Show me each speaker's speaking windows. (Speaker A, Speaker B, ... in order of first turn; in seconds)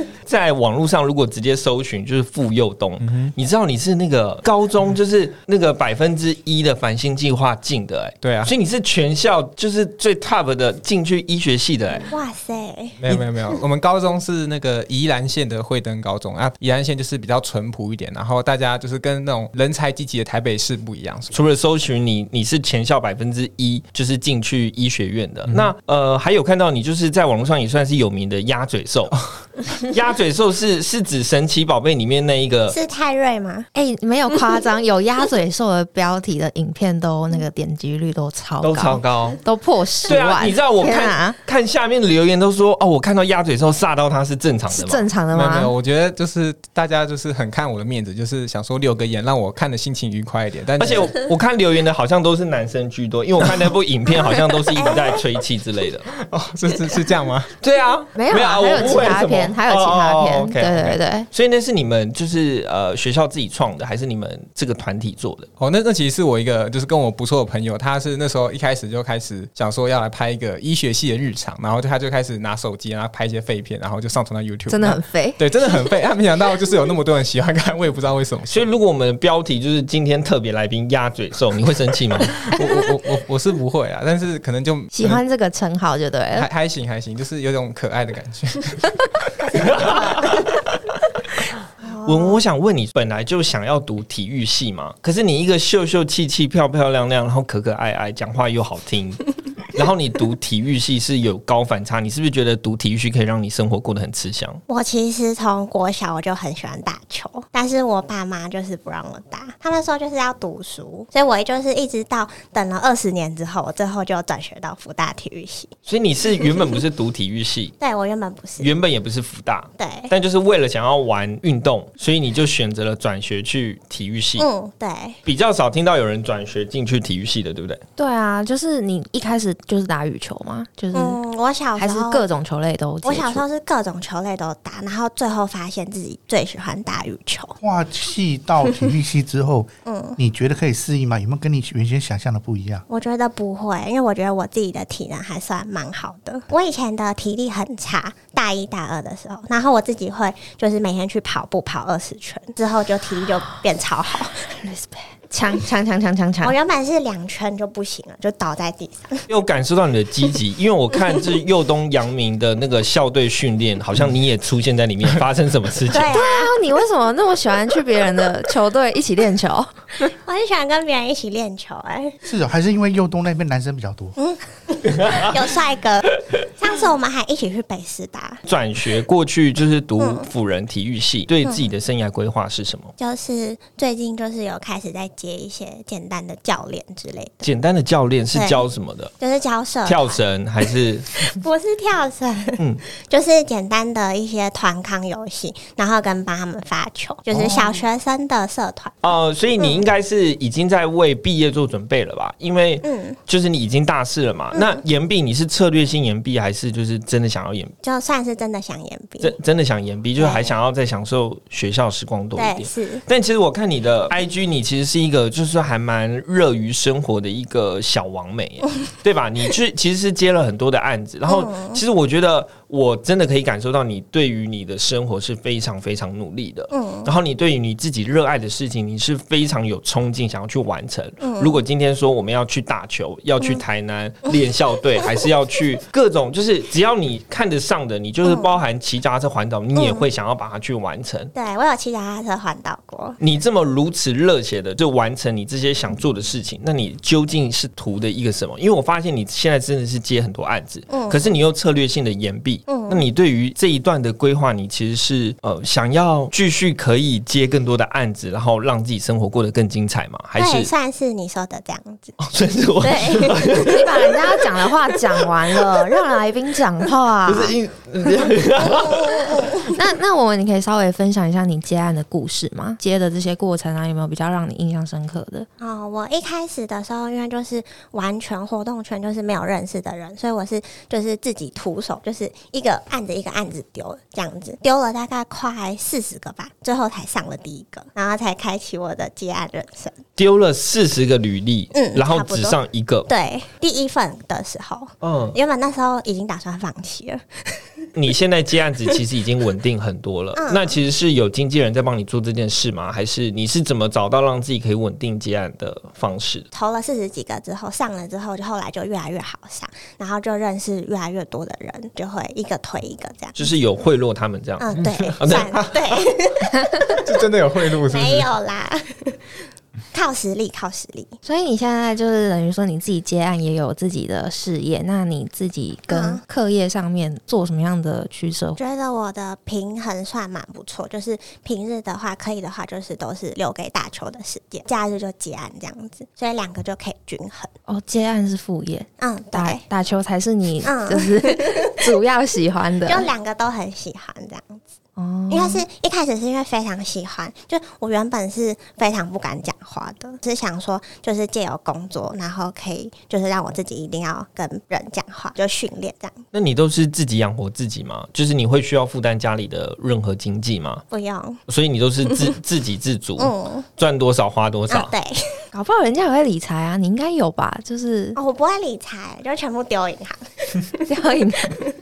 Speaker A: 0.2-12.1, 21.3-29.2, 29.8-32.8, 38.6-39.4, 40.0-45.1, 50.8-56.1, 57.6-65.5, 78.5-82.5, 89.6-90.3, 92.0-104.6, 115.8-117.8, 118.6-124.5, 125.2-127.8, 159.3-166.2, 178.4-182.9, 187.4-189.1, 189.8-191.1, 197.3-197.8, 199.0-207.7, 209.2-241.3, 243.2-260.7, 262.2-263.9, 267.3-269.5, 290.2-293.1, 295.0-295.4, 297.9-306.5, 313.4-315.6, 356.3-360.8, 361.5-364.9
Speaker B: 3.0-3.3, 8.2-8.5, 13.0-21.4, 45.3-51.2, 56.1-57.5, 65.6-78.7, 82.4-85.2, 86.3-89.0, 89.6-90.1, 314.8-315.9, 316.9-318.3
Speaker C: 12.1-13.2, 32.7-33.7, 91.8-92.4, 104.7-115.7, 117.8-118.7, 119.8-120.1, 124.4-125.2, 130.9-132.2, 133.0-137.6, 139.8-140.2, 142.9-154.3, 156.4-159.2, 165.9-166.5, 170.2-172.2, 174.2-178.4, 180.0-180.3, 183.0-187.5, 188.3-188.6, 189.2-190.2, 191.2-199.0, 199.6-199.8, 202.8-203.2, 204.5-204.8, 207.8-209.3, 210.2-210.5, 212.3-213.0, 221.3-221.8, 226.7-227.1, 231.2-231.6, 238.2-238.5, 239.8-240.0, 241.3-243.2, 250.9-251.2, 252.7-253.0, 260.4-262.2, 262.8-263.8, 268.6-269.7, 275.6-290.0, 291.7-297.8, 300.4-300.8, 306.5-313.5, 314.6-317.2, 317.9-319.2, 319.9-321.1, 325.9-326.2, 328.6-337.5, 339.0-339.6, 340.6-341.9, 342.9-344.6, 345.3-356.2, 360.9-361.4, 363.2-363.6, 364.7-365.4, 368.2-370.8
Speaker D: 33.7-41.4, 44.7-45.7, 58.1-61.3, 74.7-75.4, 84.9-86.5, 128.0-131.2, 131.8-133.4, 154.5-156.5, 166.1-170.1, 263.6-267.6, 269.7-275.5, 321.2-328.6, 337.7-343.1, 345.0-345.6, 365.5-368.2, 370.9-371.5
Speaker E: 137.6-142.8, 172.2-174.2